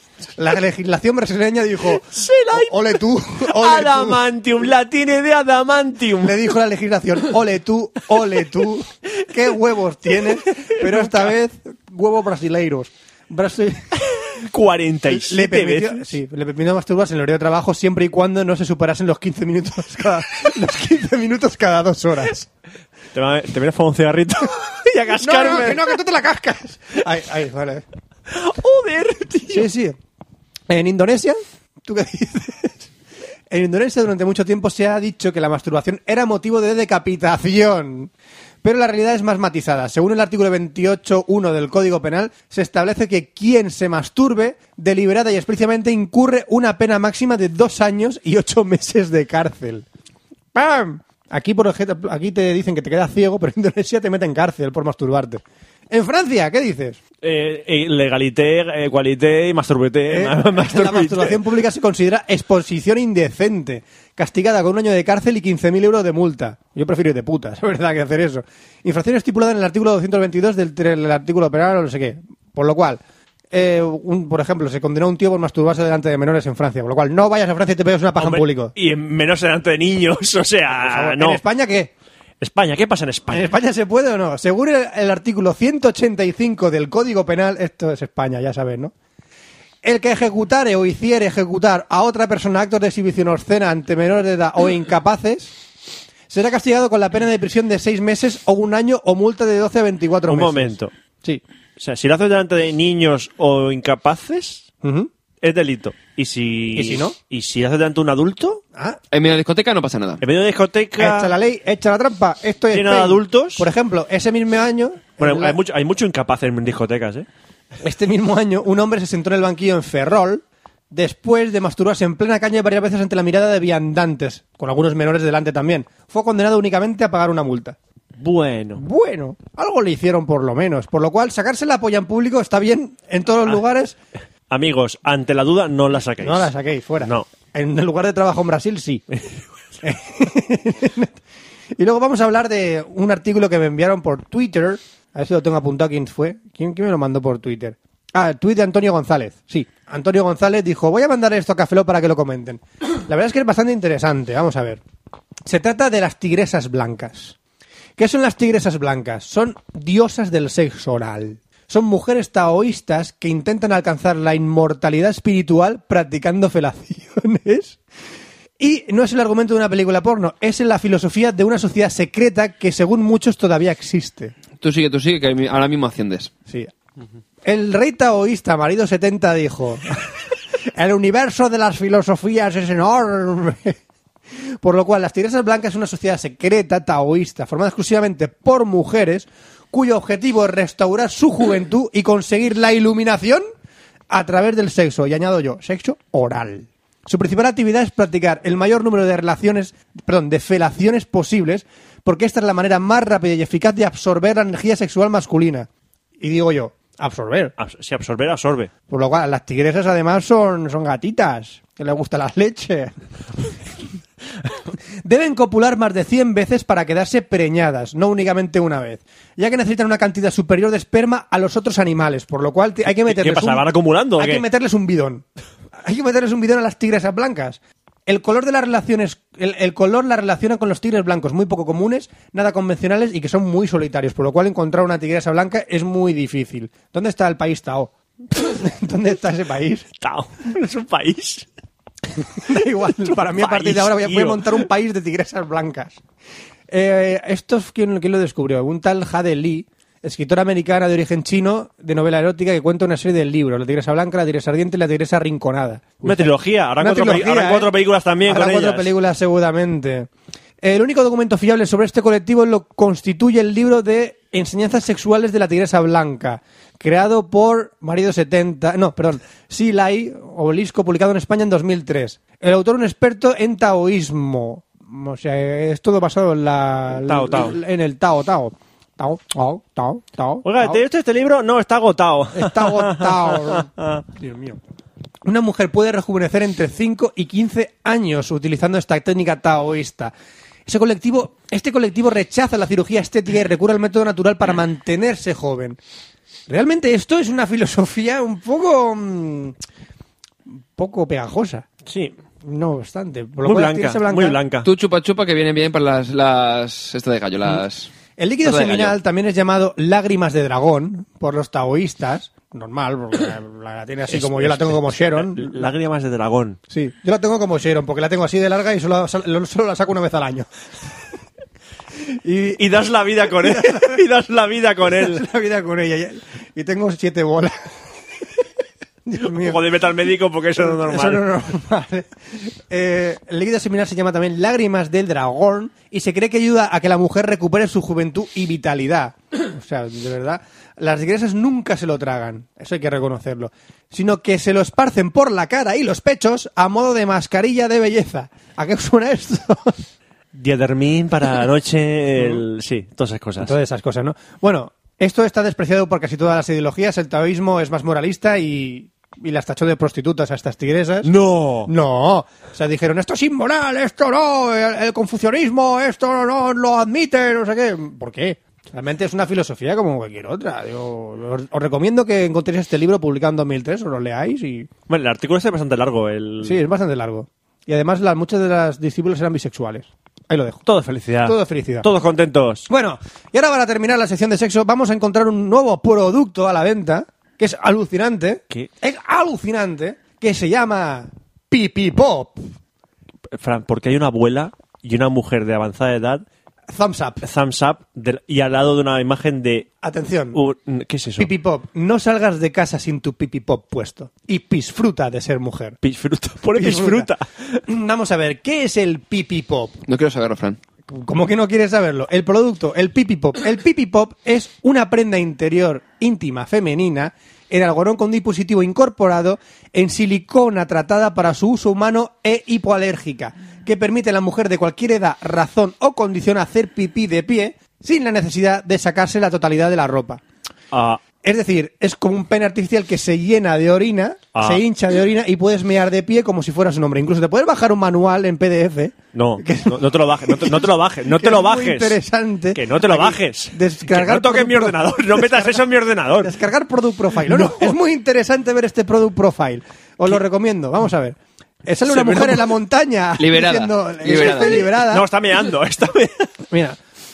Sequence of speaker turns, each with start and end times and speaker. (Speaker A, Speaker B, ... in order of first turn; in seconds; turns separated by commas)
Speaker A: 0.4-4.2, Speaker B: 1.9-6.5, Speaker A: 6.2-14.0, Speaker B: 10.5-11.3, Speaker B: 14.4-16.1, Speaker A: 15.1-22.5, Speaker B: 23.1-26.0, Speaker A: 25.2-27.8, Speaker B: 28.3-29.7, Speaker A: 29.5-30.0, Speaker A: 30.7-32.9, Speaker A: 33.5-38.1, Speaker A: 38.6-49.8, Speaker A: 50.5-57.0, Speaker B: 57.2-61.4, Speaker A: 60.1-73.0, Speaker A: 73.5-78.7, Speaker B: 78.2-81.4, Speaker A: 80.7-81.9, Speaker B: 82.4-83.5, Speaker A: 83.3-88.9, Speaker A: 89.8-95.5, Speaker A: 96.3-101.4, Speaker B: 100.3-100.9, Speaker B: 101.8-104.6, Speaker A: 104.8-105.1, Speaker B: 105.4-108.6, Speaker A: 106.7-107.2, Speaker C: 109.1-110.2, Speaker B: 110.2-111.3, Speaker A: 111.0-115.6, Speaker B: 112.7-113.7, Speaker B: 115.2-117.3, Speaker A: 117.8-127.8, Speaker B: 128.2-128.8, Speaker A: 128.8-133.9, Speaker B: 134.5-137.3, Speaker A: 136.2-139.0, Speaker B: 139.1-139.4, Speaker A: 139.8-141.1, Speaker A: 141.8-154.8, Speaker A: 155.4-157.3, Speaker A: 158.0-167.8, Speaker A: 168.6-174.3, Speaker C: 174.6-176.3, Speaker A: 177.4-180.1, Speaker A: 180.7-183.8, Speaker A: 184.6-193.4, Speaker A: 194.1-205.7, Speaker A: 206.2-207.5, Speaker B: 207.6-208.7, Speaker A: 208.9-212.9, Speaker A: 215.0-225.2, Speaker B: 223.0-224.4, Speaker A: 225.8-239.9, Speaker B: 240.0-241.5, Speaker A: 242.4-246.0, Speaker B: 243.0-244.7, Speaker A: 246.7-257.7, Speaker B: 256.0-258.9, Speaker A: 258.2-260.1, Speaker A: 260.6-280.8, Speaker B: 277.0-277.6, Speaker B: 280.4-284.0, Speaker A: 282.3-284.6, Speaker A: 285.2-290.1, Speaker A: 290.7-295.8, Speaker A: 296.5-299.5, Speaker A: 300.8-301.7, Speaker B: 301.9-302.1, Speaker A: 302.4-304.4, Speaker B: 303.4-304.7, Speaker C: 304.6-307.9, Speaker A: 308.2-315.7, Speaker C: 308.4-308.9, Speaker B: 314.1-316.6, Speaker A: 316.7-320.5, Speaker A: 322.1-322.6, Speaker B: 322.5-325.2, Speaker A: 323.3-324.0, Speaker A: 324.9-327.5, Speaker A: 329.1-329.6, Speaker B: 329.2-331.2, Speaker A: 330.6-349.8, Speaker B: 350.3-353.5, Speaker A: 353.4-361.1, Speaker B: 361.0-361.7, Speaker A: 361.6-374.7, Speaker B: 374.9-376.6, Speaker A: 376.4-380.6, Speaker B: 380.6-382.7, Speaker A: 381.2-381.9, Speaker A: 382.7-392.4, Speaker B: 393.3-396.2, Speaker A: 396.7-397.2, Speaker B: 397.2-399.7, Speaker A: 399.8-400.4, Speaker B: 400.3-401.3, Speaker A: 401.2-405.8, Speaker B: 405.8-407.6, Speaker A: 406.5-407.1, Speaker A: 407.7-409.8, Speaker C: 409.9-410.6, Speaker A: 410.9-430.2, Speaker B: 430.7-431.0, Speaker A: 431.2-445.6, Speaker B: 434.3-434.6, Speaker B: 439.1-442.0, Speaker B: 442.5-446.4, Speaker A: 446.2-455.1, Speaker B: 447.2-447.8, Speaker B: 451.8-452.5, Speaker C: 453.2-454.6, Speaker B: 454.1-456.3, Speaker A: 456.5-456.8